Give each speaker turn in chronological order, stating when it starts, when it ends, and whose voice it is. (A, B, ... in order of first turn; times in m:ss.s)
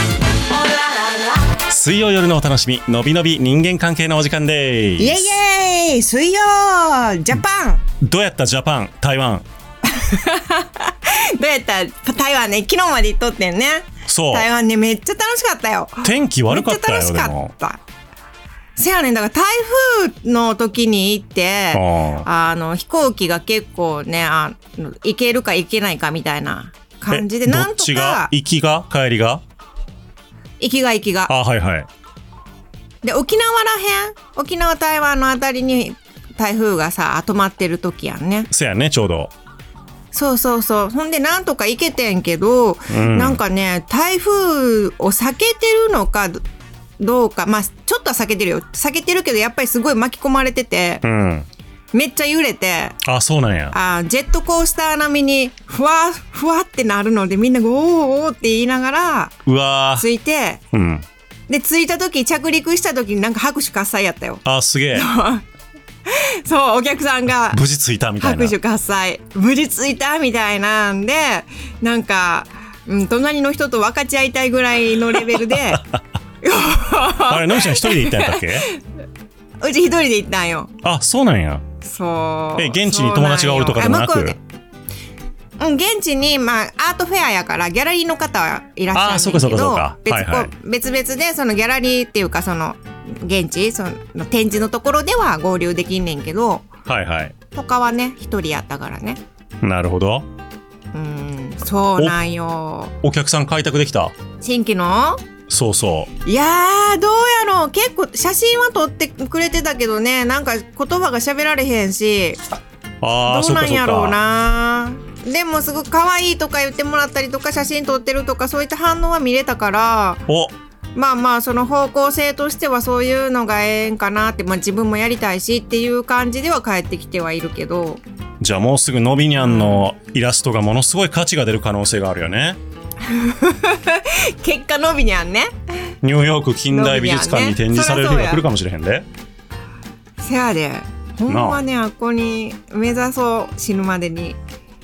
0:00.5-0:01.4 A
0:01.7-0:05.3 B
0:05.0-0:07.8 A
0:08.0-0:09.4 B
0:09.9-0:17.8 A
0:14.0-0:14.5 B
0:16.0-0:17.5 B
0:18.8-0:28.3 A
0:21.7-0:22.3 B
0:27.1-0:29.4 B
0:30.6-0:31.3 A
0:31.3-0:31.9 B
0:33.0-0:38.5 A
0:38.5-0:39.3 B
0:40.1-0:46.4 A
0:42.9-0:43.4 B
0:47.0-0:51.0 A
0:51.0-0:51.5 B
0:51.9-0:53.0 A
0:53.0-0:53.7 B
0:53.7-0:59.3 A
0:59.4-1:00.0 B
1:00.0-1:00.6 A
1:00.7-1:01.0 B
1:01.5-1:04.4 A
1:04.4-1:05.1 B
1:04.9-1:05.4 A
1:06.0-1:07.6 A
1:07.5-1:08.5 B
1:08.2-1:15.8 A
1:15.4-1:16.0 B
1:16.4-1:18.8 A
1:17.2-1:18.7 B
1:19.6-1:20.7 A
1:20.8-1:21.6 B
1:21.8-1:24.4 A
1:22.6-1:24.4 B
1:25.6-1:36.7 A
1:28.9-1:30.5 B
1:36.9-1:37.3 B
1:37.5-1:39.2 A
1:39.6-1:40.2 B
1:40.9-1:42.9 A
1:43.0-1:44.1 B
1:44.4-1:45.2 A
1:45.5-1:46.1 B
1:46.2-1:52.4 A
1:53.0-1:54.2 B
1:53.2-2:00.2 A
2:00.3-2:00.5 B
2:00.9-2:08.0 A
2:08.4-2:12.6 B
2:09.4-2:09.8 A
2:13.0-2:15.5 A
2:16.0-2:19.0 B
2:16.7-2:18.4 A
2:20.2-2:24.4 A
2:21.3-2:21.6 B